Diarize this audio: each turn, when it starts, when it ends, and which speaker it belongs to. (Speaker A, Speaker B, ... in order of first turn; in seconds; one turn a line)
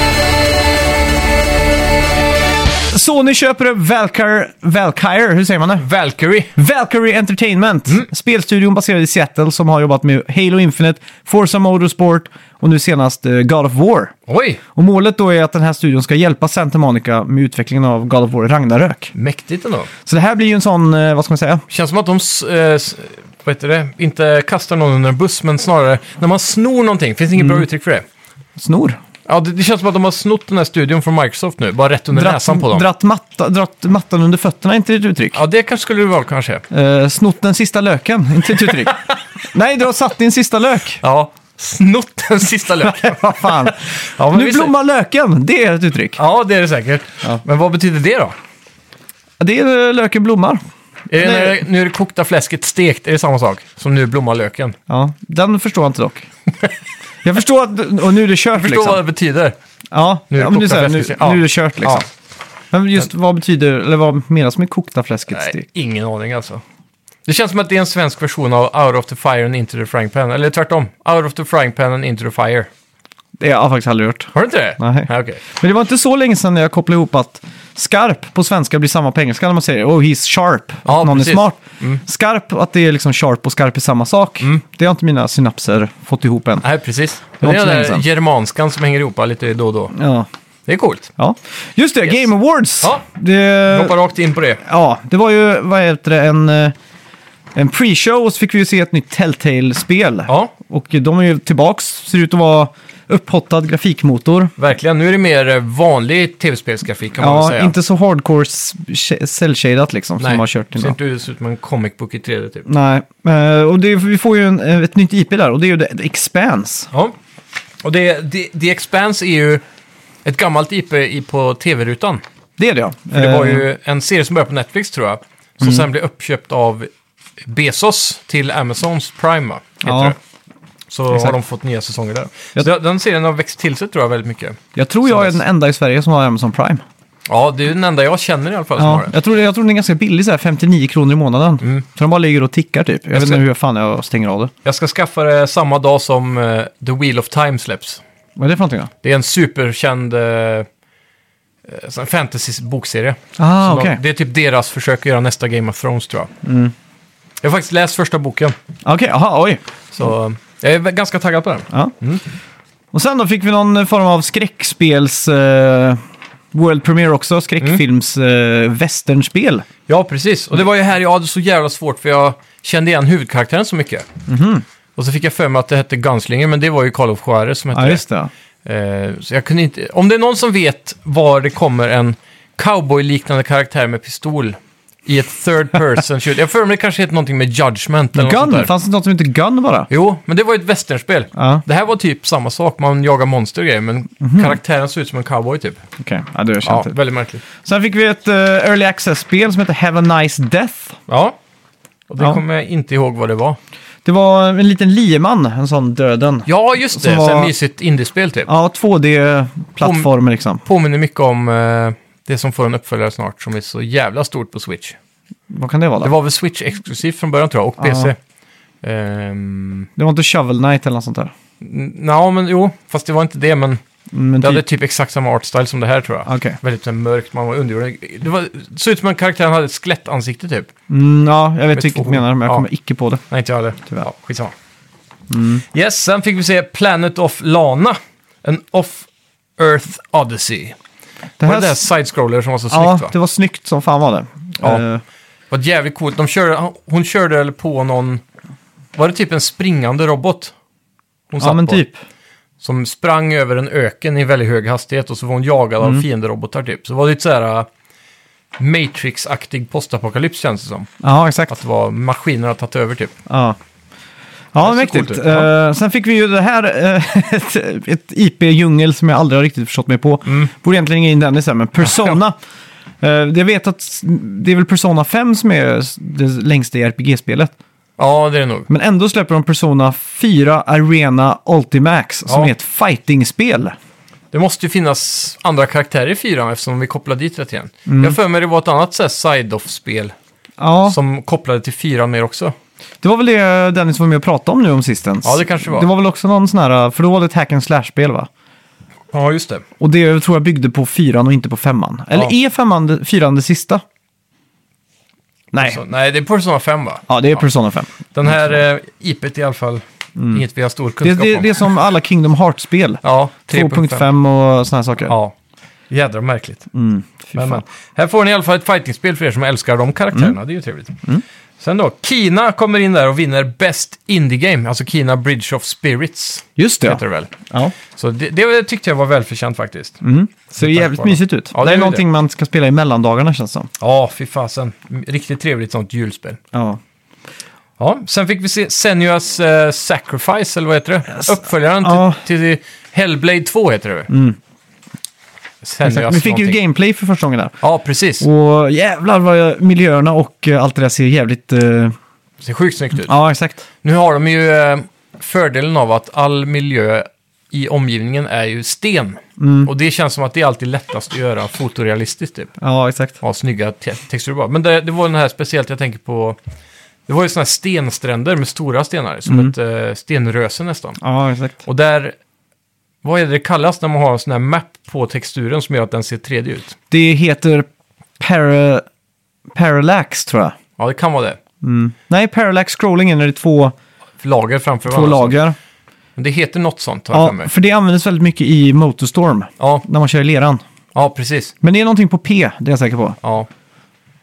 Speaker A: 2.9-5.9
Speaker B: 5.8-6.5
Speaker A: 6.5-14.1
Speaker B: 14.3-14.6
Speaker A: 14.7-19.1
Speaker B: 19.1-19.9
Speaker A: 20.1-21.6
Speaker B: 21.7-28.1
Speaker A: 28.6-29.0
Speaker B: 29.2-32.9
Speaker A: 32.1-35.4
Speaker B: 35.3-36.6
Speaker A: 36.7-39.0
Speaker A: 39.5-41.0
Speaker B: 41.0-44.7
Speaker A: 42.8-46.2
Speaker B: 46.2-48.3
Speaker A: 49.4-50.6
Speaker B: 51.1-54.8
Speaker A: 51.1-51.6
Speaker A: 54.9-56.3
Speaker A: 57.2-59.0
Speaker B: 58.5-59.5
Speaker A: 59.9-62.1
Speaker B: 60.3-62.0
Speaker A: 62.7-65.6
Speaker B: 65.3-66.6
Speaker B: 67.2-72.7
Speaker A: 73.4-86.7
Speaker B: 74.3-75.4
Speaker B: 80.8-82.0
Speaker B: 86.6-89.9
Speaker A: 87.4-88.0
Speaker A: 89.9-90.3
Speaker B: 90.7-91.1
Speaker A: 91.2-94.0
Speaker B: 93.7-94.6
Speaker A: 94.6-96.7
Speaker A: 97.5-104.5
Speaker B: 100.3-100.5
Speaker B: 104.6-107.7
Speaker A: 107.2-111.0
Speaker B: 110.2-112.7
Speaker A: 112.7-116.9
Speaker B: 117.8-119.6
Speaker B: 120.2-122.2
Speaker A: 122.6-123.7
Speaker B: 123.1-126.9
Speaker B: 127.4-130.2
Speaker A: 129.8-130.1
Speaker B: 130.9-135.4
Speaker A: 134.7-136.8
Speaker B: 137.3-139.1
Speaker A: 138.8-144.5
Speaker B: 143.1-143.4
Speaker B: 144.6-148.0
Speaker A: 148.4-148.9
Speaker B: 149.0-150.7
Speaker B: 151.6-156.3
Speaker A: 153.4-154.0
Speaker A: 156.4-156.7
Speaker B: 157.4-158.6
Speaker A: 158.8-159.6
Speaker B: 159.9-162.2
Speaker A: 162.9-166.0
Speaker A: 166.5-169.7
Speaker B: 169.9-174.1
Speaker A: 174.3-174.6
Speaker B: 174.9-178.0
Speaker A: 177.7-178.3
Speaker B: 178.6-188.7
Speaker A: 188.1-189.9
Speaker B: 189.9-195.8
Speaker A: 191.3-191.6
Speaker A: 194.2-194.6
Speaker A: 196.0-196.9
Speaker B: 196.6-197.4
Speaker A: 197.6-201.0
Speaker B: 201.1-201.4
Speaker B: 202.1-203.6
Speaker A: 204.0-207.5
Speaker B: 206.5-208.5
Speaker A: 208.5-210.6
Speaker B: 209.8-210.1
Speaker B: 210.6-214.9
Speaker A: 215.5-216.1
Speaker B: 216.0-218.2
Speaker A: 217.8-218.1
Speaker B: 218.8-219.9
Speaker A: 220.0-221.3
Speaker B: 221.6-223.8
Speaker A: 224.1-224.6
Speaker B: 224.4-230.7
Speaker A: 226.2-226.6
Speaker A: 230.9-233.2
Speaker B: 231.7-232.6
Speaker B: 233.3-234.5
Speaker A: 235.3-235.6
Speaker B: 235.7-240.8
Speaker A: 241.4-241.8
Speaker B: 241.4-243.1
Speaker A: 242.7-245.0
Speaker B: 245.5-248.2
Speaker B: 248.9-250.5
Speaker B: 251.3-251.8
Speaker A: 251.4-252.0
Speaker B: 252.6-257.7
Speaker B: 258.6-260.9
Speaker A: 261.0-261.6
Speaker B: 261.5-263.1
Speaker A: 263.3-263.6
Speaker A: 264.5-272.4
Speaker B: 264.6-265.5
Speaker B: 270.2-270.5
Speaker B: 271.9-272.1
Speaker A: 273.0-277.5
Speaker B: 278.0-278.7
Speaker A: 278.7-283.7
Speaker B: 284.3-290.1
Speaker A: 287.9-288.2
Speaker A: 290.6-291.0
Speaker B: 290.9-292.5
Speaker A: 293.0-298.3
Speaker B: 295.2-295.9
Speaker B: 299.1-299.6
Speaker A: 299.8-303.8
Speaker A: 305.5-305.8
Speaker B: 305.6-307.1
Speaker A: 307.1-308.5
Speaker B: 308.1-311.7
Speaker A: 310.2-310.4
Speaker A: 311.0-315.1
Speaker B: 313.0-314.1
Speaker B: 315.1-315.3
Speaker B: 315.9-316.6
Speaker A: 316.7-317.6
Speaker B: 317.3-321.0
Speaker B: 321.6-327.3
Speaker A: 326.6-327.7
Speaker B: 327.9-330.0
Speaker A: 330.0-333.7
Speaker B: 330.5-332.0
Speaker B: 333.8-336.4
Speaker A: 336.5-336.8
Speaker B: 337.8-344.1
Speaker A: 341.1-342.2
Speaker A: 344.1-344.4
Speaker B: 345.6-346.6
Speaker A: 345.8-347.6
Speaker B: 347.6-348.2
Speaker A: 348.2-351.9
Speaker B: 352.4-353.1
Speaker A: 353.0-353.6
Speaker B: 353.8-362.5
Speaker A: 359.4-359.7
Speaker A: 362.6-363.2
Speaker B: 363.2-366.4
Speaker B: 367.1-371.0
Speaker A: 369.3-369.5
Speaker A: 371.0-371.6
Speaker B: 371.6-372.1
Speaker B: 373.0-376.7
Speaker A: 376.9-377.6
Speaker A: 378.2-378.8
Speaker A: 379.5-380.6
Speaker B: 380.8-381.4
Speaker A: 381.6-383.7
Speaker B: 384.2-385.4
Speaker A: 384.9-385.6
Speaker B: 386.1-387.5
Speaker A: 387.1-390.6
Speaker B: 390.9-391.5
Speaker A: 391.6-393.2
Speaker B: 393.2-393.5